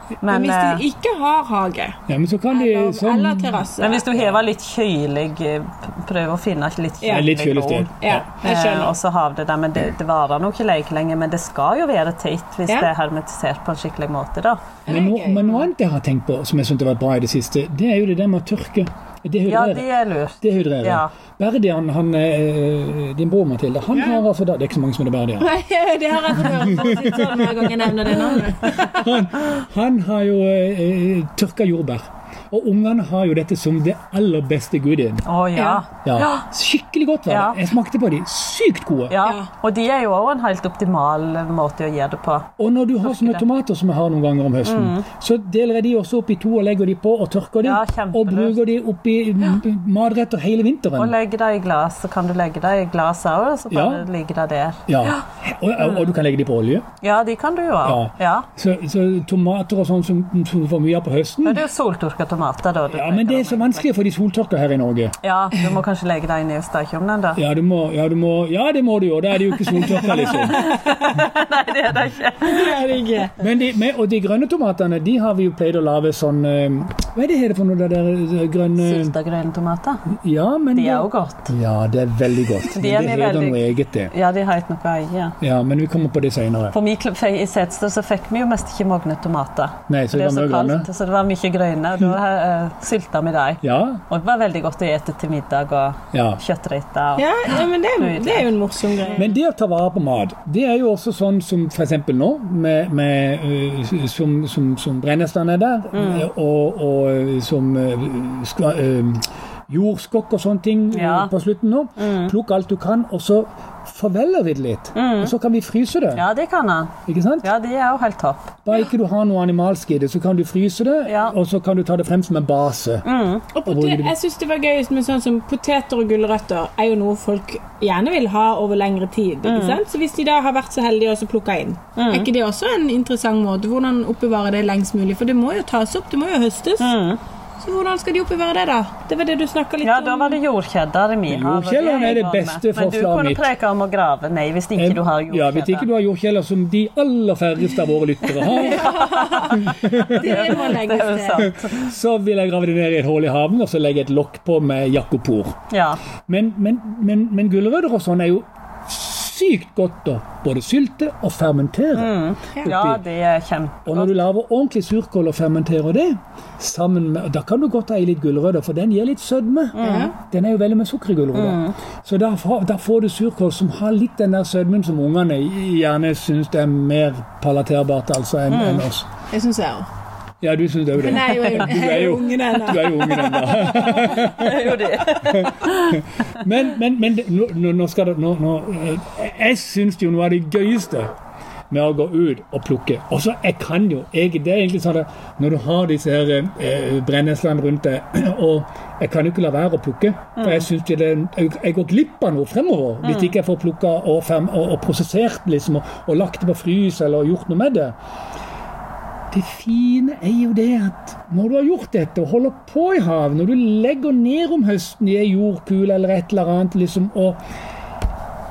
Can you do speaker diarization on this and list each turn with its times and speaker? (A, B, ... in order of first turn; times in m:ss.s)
0:00.2-0:00.8 A
0:00.3-0:02.0 B
0:02.1-0:03.6 C
0:02.5-0:04.3 B
0:03.8-0:14.8 A
0:07.0-0:07.3 B
0:07.1-0:08.3 C
0:08.0-0:08.9 B
0:14.8-0:15.6 B
0:14.9-0:25.5 C
0:19.5-0:21.1 A
0:23.9-0:24.2 B
0:25.4-0:29.0 B
0:26.4-0:27.5 C
0:28.3-0:35.2 C
0:35.2-0:36.4 A
0:35.6-0:35.8 B
0:36.0-0:39.1 C
0:37.3-0:37.6 A
0:39.1-0:42.5 A
0:39.2-0:39.5 B
0:42.6-0:51.1 C
0:43.0-0:43.4 A
0:44.6-0:45.1 A
0:47.6-0:48.6 A
0:51.0-0:55.2 A
0:53.7-0:54.0 C
0:54.9-0:56.8 C
0:55.8-0:56.1 A
0:57.0-0:58.5 A
0:57.8-1:01.6 C
1:01.4-1:03.9 A
1:02.9-1:05.2 C
1:05.2-1:07.4 A
1:07.4-1:10.6 C
1:10.4-1:12.8 A
1:12.4-1:13.3 B
1:13.4-1:19.1 C
1:18.8-1:20.1 A
1:20.2-1:24.1 C
1:20.7-1:21.5 A
1:22.7-1:25.4 A
1:25.4-1:26.8 C
1:26.7-1:38.5 A
1:29.9-1:30.9 C
1:33.6-1:34.0 C
1:36.1-1:36.4 C
1:37.2-1:39.3 B
1:39.2-1:56.2 C
1:45.9-1:46.3 A
1:50.9-1:51.3 A
1:52.0-1:52.3 A
1:54.9-1:55.3 A
1:56.2-1:58.6 A
1:57.1-1:57.5 C
1:58.7-2:03.0 C
2:01.1-2:01.4 A
2:03.0-2:03.5 A
2:03.6-2:16.9 B
2:03.7-2:04.1 C
2:09.4-2:09.8 A
2:12.0-2:12.3 A
2:16.8-2:17.2 A
2:17.6-2:20.4 B
2:19.8-2:25.9 A
2:21.3-2:23.5 C
2:24.8-2:29.1 C
2:28.3-2:31.9 A
2:28.5-2:31.5 B
2:29.6-2:30.4 C
2:31.4-2:35.6 C
2:35.7-2:36.0 A
2:36.3-2:43.0 C
2:41.9-2:44.2 A
2:43.8-2:59.1 C
2:49.7-2:50.1 A
2:49.8-2:50.2 B
2:51.3-2:51.8 A
2:58.5-2:58.9 A
2:59.3-2:59.9 B
3:00.4-3:11.1 C
3:01.0-3:04.8 B
3:03.8-3:06.0 A
3:11.7-3:27.9 C
3:20.4-3:20.7 A
3:23.0-3:23.3 A
3:29.3-3:37.4 C